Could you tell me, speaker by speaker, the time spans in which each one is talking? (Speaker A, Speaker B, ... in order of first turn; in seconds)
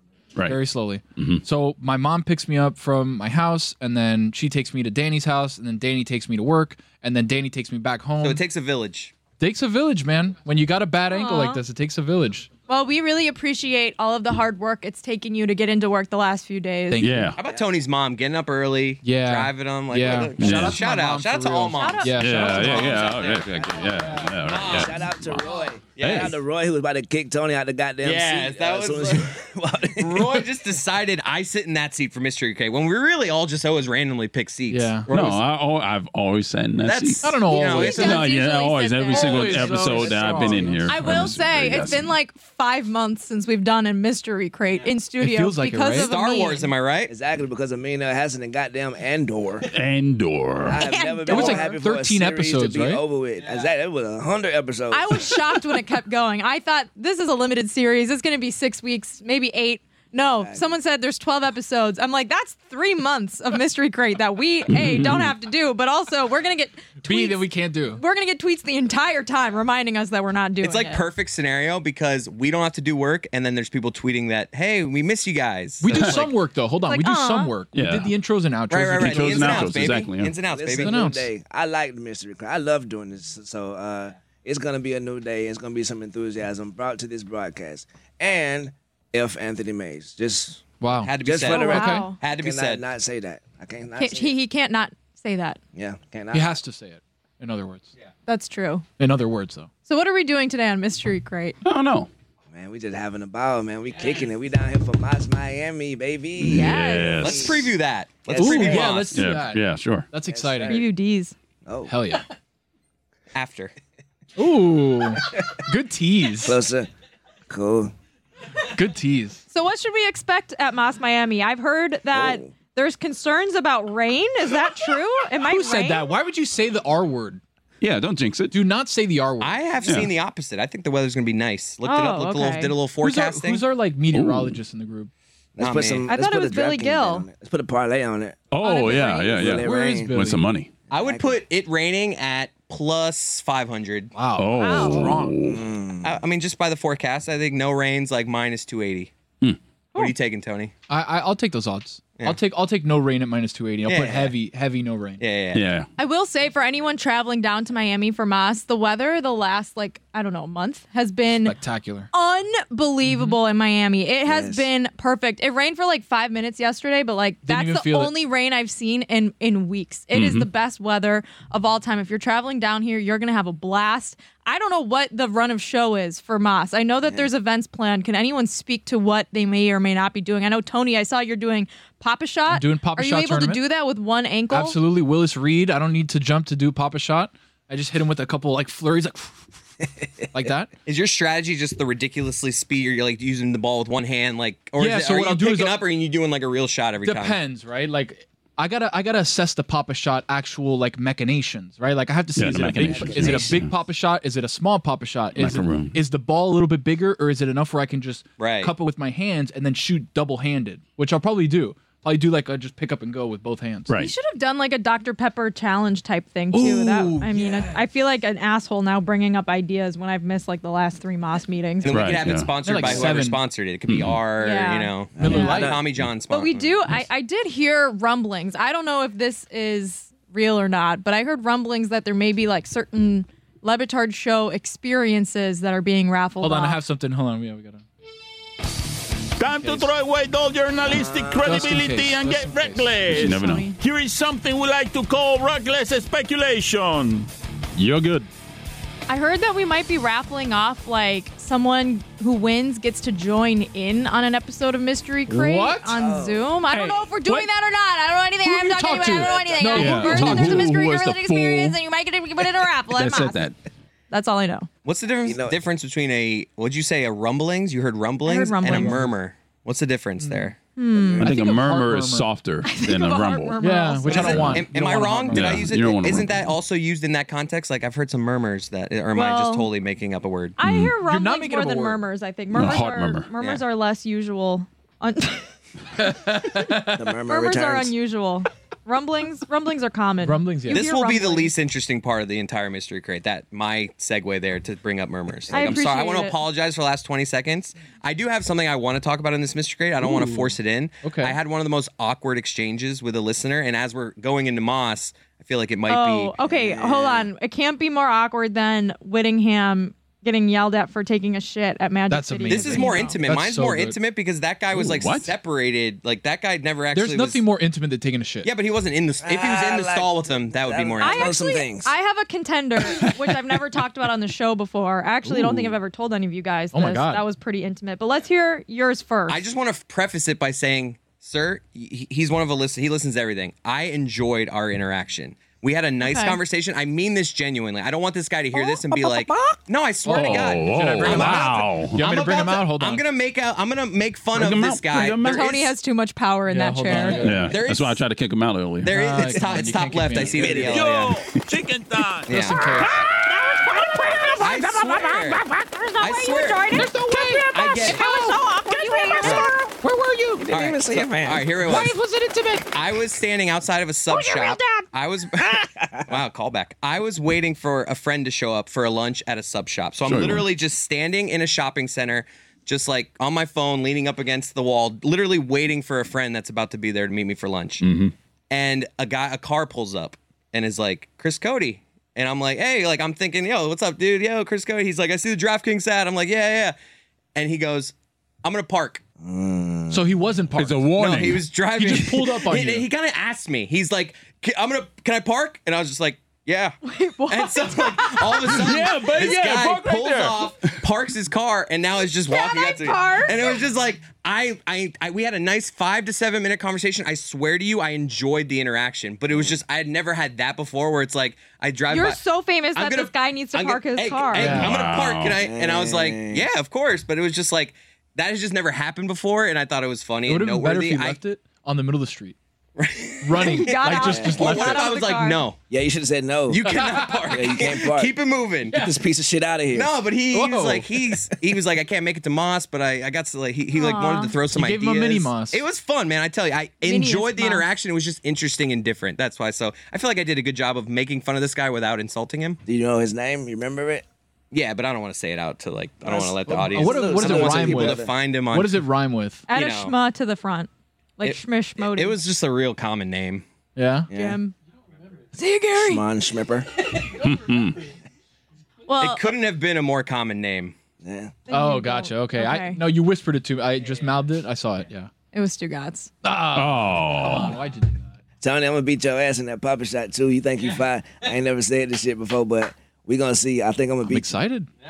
Speaker A: 0.3-0.6, 1.2-1.4, 17.0-17.4, 20.4-20.8, 22.2-25.4, 35.1-42.1, 49.7-50.8, 64.7-65.3, 75.9-76.3, 77.7-78.1, 79.0-80.4, 101.6-102.1, 106.4-107.7, 108.9-110.1, 127.8-128.6, 129.8-130.1, 134.1-134.6, 138.5-140.7, 144.4-145.6, 155.5-155.9, 170.1-170.5, 202.4-203.7, 205.3-206.0, 213.9-214.1, 221.9-222.6, 223.9-224.2, 243.1-243.7, 247.8-248.3, 259.7-261.8, 262.9-263.6, 271.2-274.7, 275.3-276.5, 280.6-281.0, 282.5-283.3, 314.7-315.4, 322.9-323.2, 340.1-342.0, 344.3-345.5, 347.2-348.9, 370.1-370.5, 377.8-378.1, 390.6-391.5, 398.4-400.8, 414.4-415.4, 457.1-457.8, 466.5-467.6
Speaker B: 0.5-8.4, 9.4-12.5, 16.9-17.4, 19.0-23.1, 34.7-35.4, 37.2-38.1, 39.1-40.9, 45.2-46.1, 51.3-53.0, 67.0-68.0, 75.8-79.9, 80.8-81.3, 90.8-92.1, 96.3-97.9, 99.0-99.7, 108.4-110.8, 111.9-112.2, 114.4-116.6, 118.7-119.4, 125.4-127.4, 128.5-129.6, 133.0-135.1, 139.4-140.4, 144.1-145.4, 150.9-155.2, 161.4-162.1, 163.1-163.4, 167.4-168.1, 182.5-183.6, 184.5-189.6, 190.3-190.7, 194.8-195.8, 197.0-213.9, 216.5-217.3, 222.6-223.4, 225.2-225.8, 236.4-237.8, 239.4-239.9, 241.4-243.4, 255.3-256.0, 256.7-257.5, 258.4-260.7, 268.7-269.1, 270.2-270.5, 271.2-272.3, 273.6-275.6, 281.0-282.0, 286.0-287.0, 290.2-290.9, 300.0-300.5, 301.0-301.4, 312.1-314.0, 316.9-318.5, 325.3-325.7, 326.7-327.2, 340.1-343.0, 346.5-347.5, 348.9-350.8, 352.3-353.0, 356.7-358.4, 359.1-360.4, 361.6-362.6, 389.9-390.9, 391.8-392.9, 414.4-414.7, 420.3-422.4, 423.2-424.8, 426.7-427.3, 430.3-430.9, 434.5-435.6, 446.7-449.5, 453.8-454.1, 461.5-465.1, 466.2-468.1, 474.1-474.7
Speaker C: 8.2-9.1, 17.4-23.5, 24.5-24.9, 26.0-26.4, 28.0-29.3, 30.0-35.0, 36.8-38.3, 46.0-47.1, 70.6-76.2, 78.7-81.0, 91.0-92.8, 107.2-109.2, 113.3-113.7, 129.4-133.6, 135.6-136.1, 140.9-144.1, 146.0-149.1, 149.9-150.7, 153.9-154.3, 155.2-155.6, 190.9-197.4, 208.4-208.7, 221.8-226.8, 264.8-270.6, 274.1-280.6, 290.7-306.4, 312.5-317.4, 318.4-321.4, 329.3-345.7, 347.5-348.0, 348.8-351.2, 352.3-352.8, 354.4-355.4, 356.0-356.9, 357.5-358.1, 359.2-359.5, 360.5-361.9, 362.7-377.8, 378.5-386.8, 387.4-389.0, 391.0-396.8, 397.3-412.2, 412.7-421.2, 422.8-425.6, 426.5-428.8, 429.7-442.6, 444.5-448.8, 449.5-449.9, 451.2-453.4, 459.0-460.7
Speaker D: 11.1-11.6, 12.7-17.1, 21.7-22.9, 37.8-39.9, 40.9-46.7, 50.7-51.8, 54.9-71.0, 76.8-77.6, 91.4-92.2, 94.0-95.6, 98.3-98.8, 99.8-101.6, 106.5-107.2, 110.7-111.3, 119.5-126.1, 131.8-132.7, 136.1-137.3, 138.6-139.4, 144.5-145.2, 156.0-161.6, 162.1-184.8, 214.0-222.1, 224.4-225.7, 226.3-236.8, 243.1-243.8, 249.1-263.4, 264.1-264.7, 268.2-269.1, 270.8-271.3, 272.6-274.5, 279.1-279.7, 280.6-285.5, 287.2-291.5, 295.5-296.4, 305.9-313.2, 321.0-329.4, 336.0-336.4, 338.6-339.6, 345.3-347.4, 353.2-355.1, 355.7-359.7, 364.1-364.9, 396.8-398.6, 402.3-403.6, 411.9-414.6, 423.4-425.5, 433.7-434.4, 436.8-437.7, 449.5-452.2, 454.1-454.5, 455.3-456.0, 458.9-459.3, 461.5-462.8, 465.3-466.1
Speaker E: 24.4-30.5, 39.9-40.9, 47.1-49.7, 50.6-55.4, 60.3-60.7, 80.5-90.6, 91.2-94.4, 95.8-96.5, 102.5-107.7, 108.3-109.0, 110.2-110.9, 111.7-111.9, 116.4-116.9, 117.5-117.9, 122.1-122.5, 135.6-138.5, 139.3-140.2, 140.9-141.4, 145.5-146.2, 164.3-164.7, 202.8-203.6, 217.3-217.8, 222.8-223.2, 225.2-225.9, 240.9-241.6, 255.9-256.6, 258.9-259.9, 265.2-265.6, 270.9-271.3, 286.9-287.9, 295.5-295.9, 306.4-307.3, 319.2-322.0, 360.4-361.7, 365.8-366.1, 389.2-390.1, 415.4-416.5, 424.0-424.8, 425.7-428.1, 428.7-429.9, 442.7-444.0, 446.0-448.1, 454.1-454.4, 455.7-456.7, 461.0-461.4, 468.4-474.4
Speaker F: 239.4-247.3, 350.4-352.3